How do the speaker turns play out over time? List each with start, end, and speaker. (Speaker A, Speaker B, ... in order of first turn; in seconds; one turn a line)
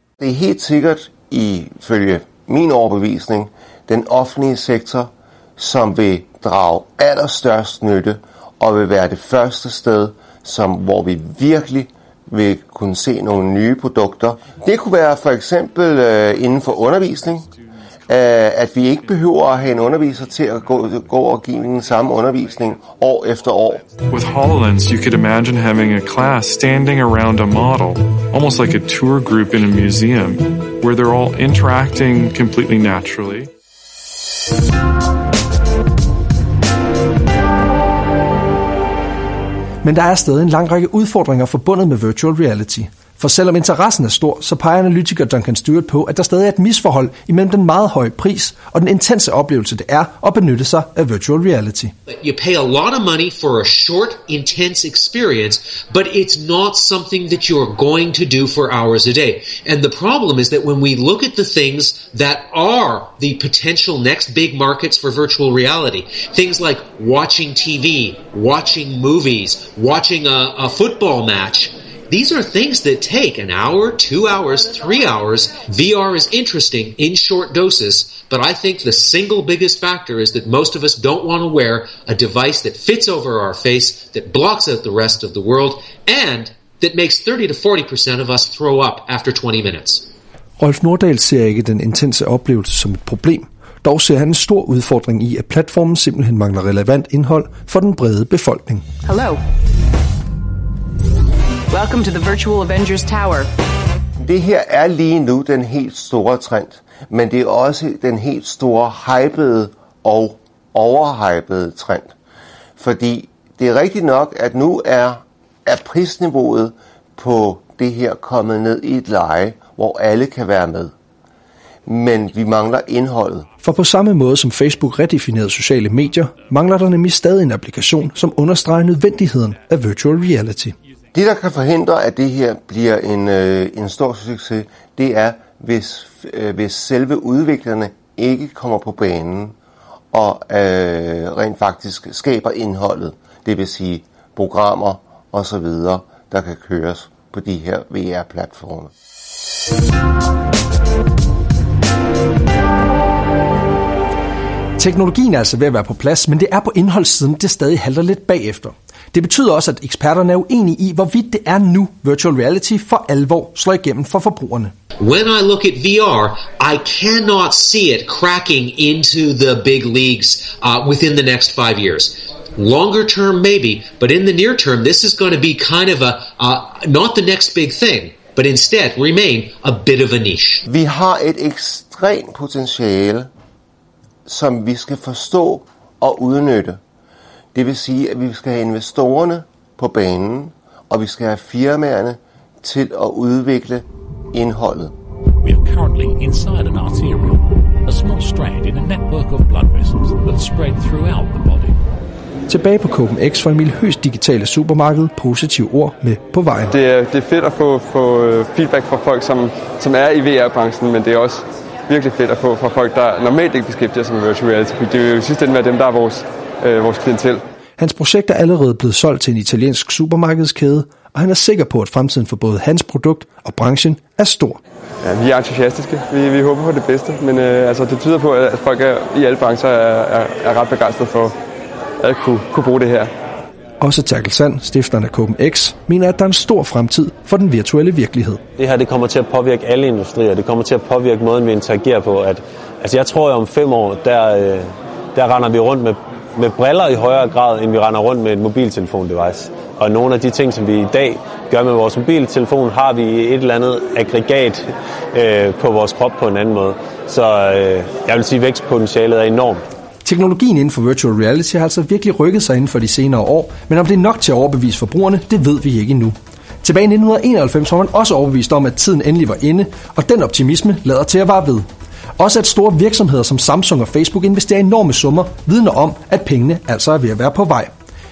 Speaker A: 0.2-17.4
Speaker A: 18.1-23.8
Speaker B: 24.1-33.5
Speaker C: 39.8-51.9
Speaker D: 52.1-90.1
Speaker C: 90.6-98.8
Speaker E: 99.0-99.4
Speaker E: 101.7-103.5
Speaker A: 104.2-112.1
Speaker A: 112.8-120.9
Speaker A: 121.8-123.5
Speaker C: 123.6-130.7
Speaker A: 131.1-139.6
Speaker A: 140.1-148.9
Speaker C: 154.8-164.7
Speaker D: 165.0-180.7
Speaker A: 180.7-183.3
Speaker A: 184.3-186.8
Speaker A: 187.5-194.9
Speaker F: 195.4-201.8
Speaker C: 202.5-206.7
Speaker G: 206.7-217.4
Speaker C: 217.8-224.6
Speaker G: 225.0-231.3
Speaker G: 232.0-233.1
Speaker C: 233.8-238.4
Speaker H: 238.6-259.6
Speaker C: 260.0-271.7
Speaker C: 272.2-277.7